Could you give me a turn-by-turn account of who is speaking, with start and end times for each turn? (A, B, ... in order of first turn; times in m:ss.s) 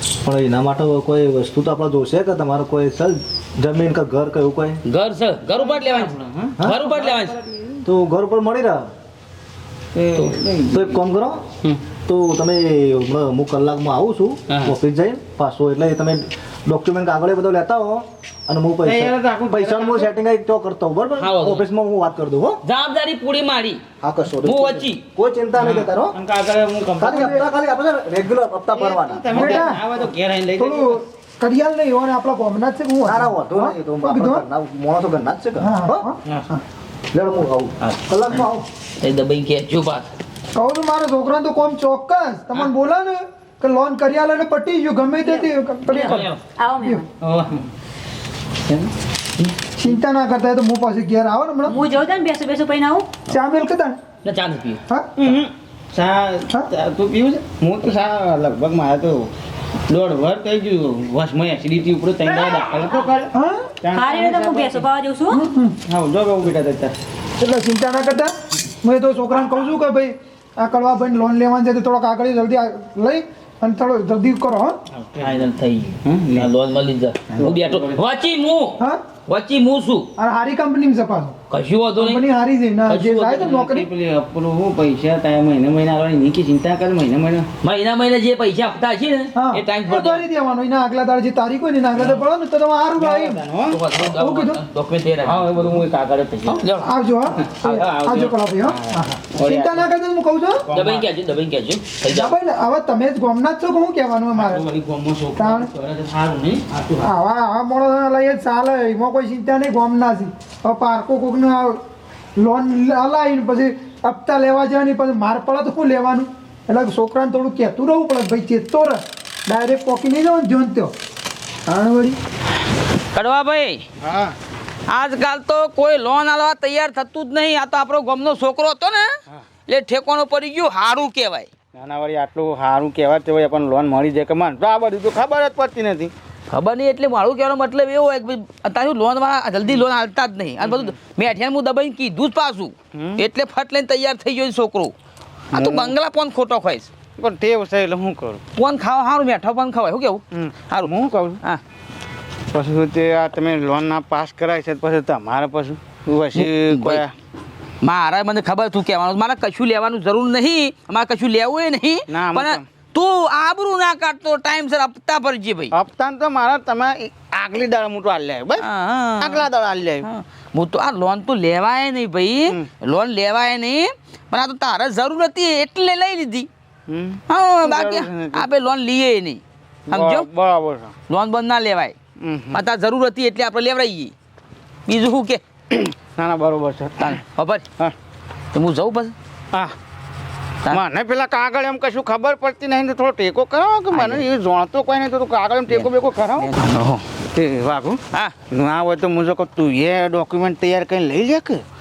0:00.2-0:04.8 A
0:04.8-0:06.1 B
0:05.5-0:07.8 C
0:06.6-0:07.3 B
0:07.8-0:08.9 A
0:09.9-0:10.9 C
0:10.1-0:10.4 B
0:10.7-0:11.4 A
0:12.0-0:22.6 A
0:14.5-0:14.7 B
0:18.8-0:20.1 C
0:21.2-0:21.6 B
0:22.6-0:23.8 B
0:24.0-0:26.2 A
0:24.4-0:25.0 B
0:25.6-0:27.5 C
0:27.0-0:29.6 A
0:28.7-0:31.0 C
0:29.3-0:29.8 D
0:30.6-0:34.4 D
0:33.0-0:36.1 A
0:35.6-0:36.6 D
0:37.1-0:38.5 A
0:38.2-0:38.6 D
0:39.0-0:40.1 B
0:40.6-0:47.0 D
0:45.2-0:47.0 E
0:45.9-0:46.4 B
0:47.2-0:47.6 C
0:49.8-0:51.8 D
0:51.6-0:53.1 E
0:53.3-0:54.0 D
0:54.2-0:54.8 B
0:55.2-0:59.3 C
0:59.9-1:04.9 C
1:03.3-1:03.7 D
1:03.9-1:05.4 E
1:05.3-1:05.8 D
1:05.9-1:06.9 C
1:07.4-1:14.8 D
1:15.1-1:20.1 B
1:16.0-1:16.5 C
1:17.3-1:18.0 C
1:20.2-1:21.4 D
1:21.5-1:22.2 B
1:22.0-1:23.9 D
1:22.9-1:23.5 B
1:23.4-1:27.5 C
1:27.6-1:30.3 B
1:29.3-1:33.4 D
1:33.0-1:33.8 C
1:33.7-1:35.8 B
1:34.1-1:34.6 D
1:35.2-1:36.6 C
1:36.5-1:36.9 B
1:36.8-1:40.6 D
1:37.6-1:38.4 B
1:38.7-1:39.8 C
1:40.7-1:41.0 C
1:40.7-1:42.3 B
1:42.0-1:44.6 D
1:44.3-1:47.0 C
1:45.4-1:45.7 D
1:47.0-1:51.8 D
1:52.4-2:00.9 D
2:01.7-2:02.2 D
2:03.1-2:03.8 B
2:04.0-2:04.3 C
2:04.9-2:09.1 B
2:09.7-2:11.5 B
2:11.7-2:16.1 C
2:16.5-2:24.9 B
2:20.6-2:20.9 C
2:22.9-2:23.2 C
2:25.5-2:25.9 C
2:25.5-2:26.9 B
2:27.2-2:28.4 C
2:28.6-2:30.9 B
2:30.3-2:31.4 C
2:32.5-2:37.1 C
2:36.3-2:37.0 B
2:37.8-2:45.7 B
2:42.1-2:42.6 C
2:45.7-2:48.6 C
2:48.6-2:49.4 B
2:49.2-2:50.1 C
2:50.0-2:56.5 B
2:56.9-2:58.4 C
2:57.3-3:00.3 B
2:59.9-3:00.9 C
3:01.1-3:02.0 B
3:02.2-3:02.6 C
3:02.5-3:04.1 B
3:04.9-3:05.4 B
3:05.7-3:07.2 C
3:07.0-3:07.6 B
3:08.5-3:09.1 B
3:10.7-3:16.5 C
3:13.9-3:14.2 B
3:15.7-3:17.0 B
3:17.3-3:21.6 C